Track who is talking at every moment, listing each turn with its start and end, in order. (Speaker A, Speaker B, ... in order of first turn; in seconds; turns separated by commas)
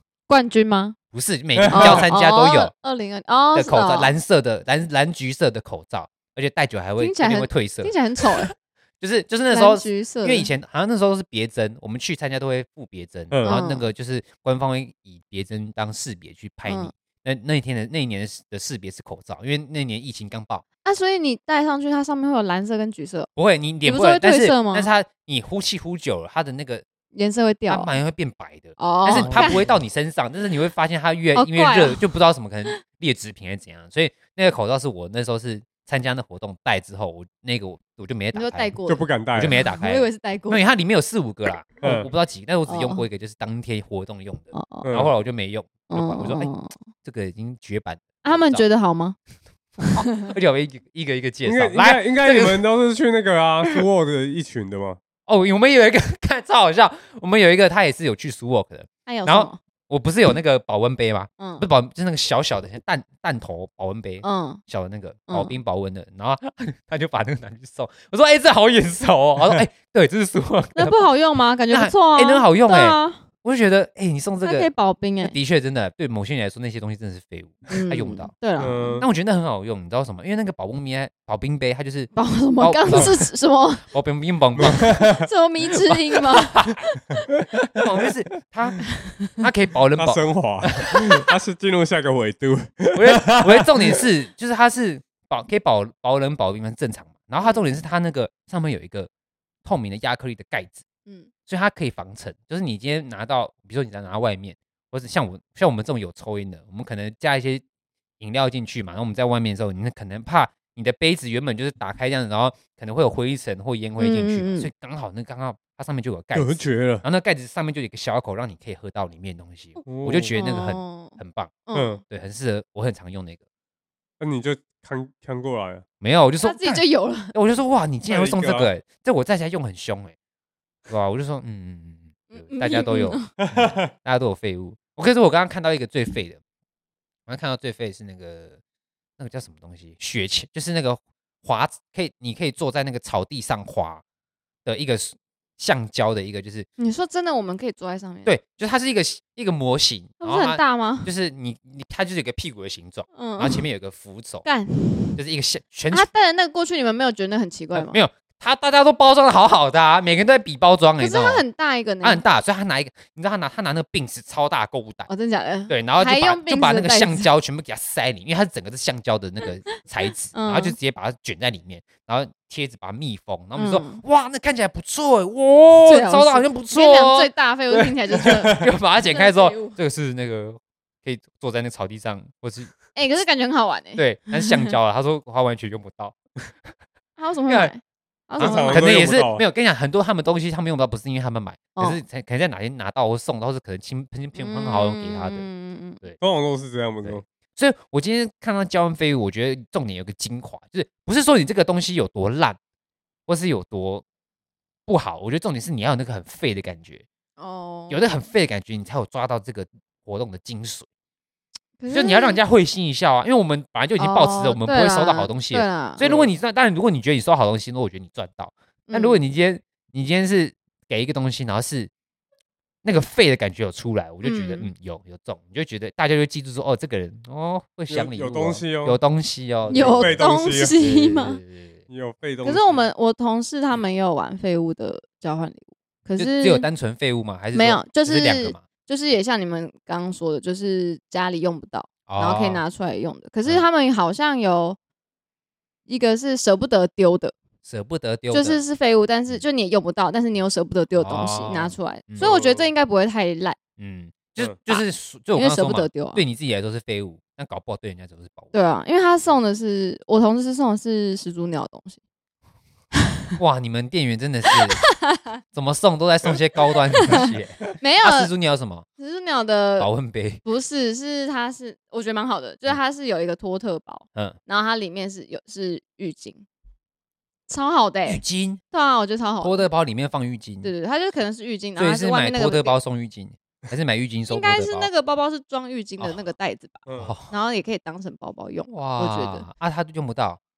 Speaker A: 0.3-0.9, Speaker B: 1.1-2.7, Speaker C: 1.6-2.0, Speaker A: 1.7-4.1, Speaker B: 3.5-20.6, Speaker A: 7.0-8.5, Speaker A: 9.5-10.5, Speaker C: 13.3-13.6, Speaker A: 13.4-13.8, Speaker A: 16.6-16.9, Speaker A: 20.8-23.3, Speaker B: 23.4-26.8, Speaker A: 23.8-24.9, Speaker A: 27.1-27.9, Speaker B: 27.7-38.7, Speaker A: 28.8-29.7, Speaker C: 29.1-29.6, Speaker A: 31.3-32.0, Speaker A: 38.3-40.6, Speaker C: 38.9-39.6, Speaker B: 39.3-46.5, Speaker C: 41.8-42.1, Speaker A: 42.7-43.0, Speaker A: 44.5-44.9, Speaker C: 44.8-45.1, Speaker A: 45.9-46.7, Speaker B: 47.0-48.6, Speaker A: 48.2-49.1, Speaker B: 49.8-52.6, Speaker A: 49.9-50.3, Speaker C: 51.4-55.0, Speaker B: 55.3-71.0, Speaker A: 59.0-59.6, Speaker A: 61.4-61.6, Speaker A: 64.2-64.6, Speaker A: 65.3-65.5, Speaker A: 70.7-73.2, Speaker B: 71.7-74.7, Speaker A: 74.4-75.3, Speaker B: 75.2-78.3, Speaker A: 77.7-79.0, Speaker C: 78.6-79.0, Speaker B: 79.0-83.2, Speaker A: 82.1-83.8, Speaker B: 83.9-84.9, Speaker C: 84.5-85.3, Speaker A: 85.1-87.2, Speaker B: 86.3-86.8, Speaker B: 87.7-91.0, Speaker C: 90.0-94.0, Speaker B: 92.9-99.1, Speaker A: 97.4-97.7, Speaker B: 99.6-100.8, Speaker B: 101.5-107.6, Speaker B: 108.2-123.4, Speaker A: 114.0-114.7, Speaker C: 116.3-117.0, Speaker C: 119.8-120.3, Speaker A: 120.3-122.0, Speaker C: 121.7-122.0, Speaker C: 124.2-125.8, Speaker B: 126.0-130.1, Speaker A: 126.4-127.3, Speaker C: 128.1-128.7, Speaker B: 130.9-136.4, Speaker A: 132.3-133.3, Speaker C: 133.4-133.9, Speaker B: 137.3-138.6, Speaker B: 139.2-144.0, Speaker B: 144.7-146.7, Speaker A: 146.8-148.3, Speaker B: 148.2-154.4, Speaker A: 150.2-151.1, Speaker A: 153.1-153.6, Speaker A: 154.4-155.2, Speaker B: 155.2-156.1, Speaker A: 155.9-158.0, Speaker B: 157.7-161.4, Speaker A: 161.0-162.2, Speaker B: 162.0-165.1, Speaker A: 165.1-167.3, Speaker B: 165.7-182.7, Speaker A: 170.3-170.8, Speaker A: 173.6-174.0, Speaker A: 175.8-179.8, Speaker A: 182.9-184.7, Speaker B: 183.9-186.2, Speaker A: 187.2-188.9, Speaker B: 187.5-187.7, Speaker C: 188.4-189.4, Speaker B: 188.4-195.4, Speaker A: 191.8-192.0, Speaker A: 194.3-196.0, Speaker C: 196.2-197.2, Speaker B: 197.0-202.6, Speaker B: 203.3-204.0, Speaker B: 204.9-207.0, Speaker A: 207.4-208.0, Speaker B: 207.9-210.8, Speaker A: 211.8-212.4, Speaker B: 211.9-221.9, Speaker A: 214.0-216.0, Speaker C: 216.0-216.3, Speaker A: 218.9-219.2, Speaker B: 222.8-230.2, Speaker A: 224.2-224.7, Speaker C: 227.9-229.0, Speaker A: 229.7-231.4, Speaker C: 229.7-230.7, Speaker B: 230.7-231.8, Speaker C: 231.9-232.9, Speaker A: 232.4-236.7, Speaker B: 236.2-238.6, Speaker A: 237.5-244.8, Speaker B: 242.1-242.6, Speaker A: 245.9-247.3, Speaker B: 247.6-248.6, Speaker A: 248.3-253.6, Speaker B: 250.9-252.3, Speaker C: 252.2-252.7, Speaker B: 253.8-258.5, Speaker A: 255.3-256.2, Speaker A: 258.5-262.0, Speaker B: 263.4-264.9, Speaker A: 264.5-265.3, Speaker B: 265.5-268.9, Speaker A: 267.1-268.3, Speaker A: 269.0-269.9, Speaker B: 269.8-270.4, Speaker A: 270.4-276.4, Speaker A: 277.5-279.6, Speaker B: 278.1-278.6, Speaker B: 279.4-280.7, Speaker A: 280.6-282.8, Speaker B: 281.8-284.9, Speaker A: 284.3-289.4, Speaker C: 286.9-287.1, Speaker B: 286.9-287.3, Speaker B: 288.7-290.4